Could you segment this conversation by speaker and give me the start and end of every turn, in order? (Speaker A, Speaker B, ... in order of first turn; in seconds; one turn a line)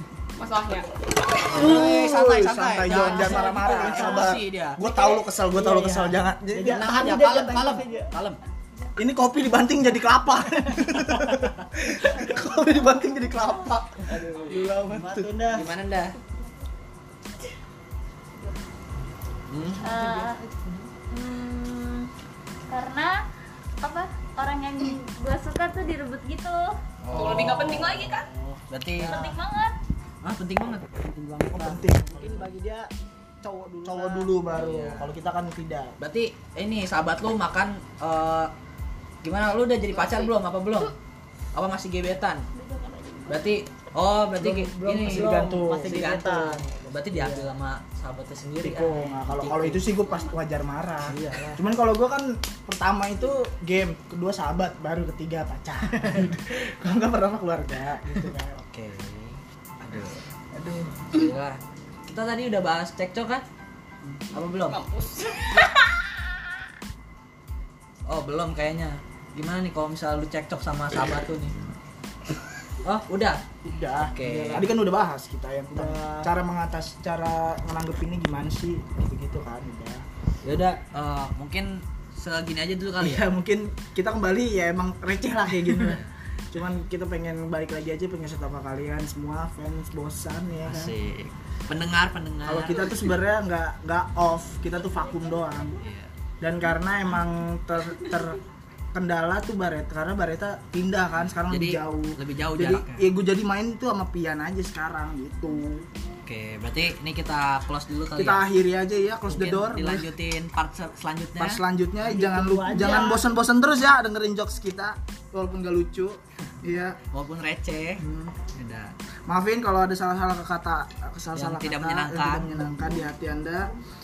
Speaker A: 0.4-0.9
Speaker B: 1.4-4.8
Speaker C: 1.5-6.9
Speaker A: 3.0-4.0
Speaker D: 3.6-4.2
Speaker D: 4.8-8.1
Speaker B: 6.7-8.4
Speaker C: 8.9-15.6
Speaker D: 14.1-15.7
Speaker B: 15.5-16.2
Speaker B: 19.5-19.9
Speaker E: 19.8-20.4
Speaker E: 21.1-22.1
Speaker E: 22.7-23.2
Speaker E: 23.8-26.8
Speaker B: 27.0-29.4
Speaker A: 27.1-28.3
Speaker E: 29.1-29.8
Speaker B: 30.2-30.9
Speaker D: 31.0-32.9
Speaker C: 31.5-32.5
Speaker D: 33.4-34.4
Speaker C: 33.9-36.0
Speaker B: 34.5-35.1
Speaker B: 36.0-38.5
Speaker B: 39.2-40.9
Speaker A: 39.9-40.9
Speaker B: 41.5-42.4
Speaker A: 42.6-42.9
Speaker E: 42.8-43.4
Speaker B: 43.3-49.9
Speaker D: 44.4-46.7
Speaker C: 45.0-46.1
Speaker C: 47.1-47.5
Speaker C: 48.6-58.6
Speaker B: 51.1-51.6
Speaker B: 58.6-60.2
Speaker C: 60.5-61.0
Speaker B: 61.1-63.4
Speaker B: 64.3-64.8
Speaker A: 64.7-66.0
Speaker B: 68.1-71.5
Speaker B: 72.8-73.4
Speaker C: 73.7-80.0
Speaker B: 74.0-74.7
Speaker D: 75.7-76.3
Speaker B: 80.4-83.2
Speaker C: 83.0-90.9
Speaker B: 85.8-86.1
Speaker B: 90.7-93.1
Speaker C: 92.4-95.8
Speaker B: 95.8-96.1
Speaker C: 96.4-98.4
Speaker C: 98.9-105.9
Speaker B: 101.3-103.1
Speaker B: 106.2-108.4
Speaker C: 108.2-110.1
Speaker B: 109.3-111.6
Speaker C: 111.4-117.0
Speaker D: 112.0-113.3
Speaker B: 117.1-118.9
Speaker C: 118.0-118.4
Speaker C: 119.3-123.7
Speaker B: 121.3-122.6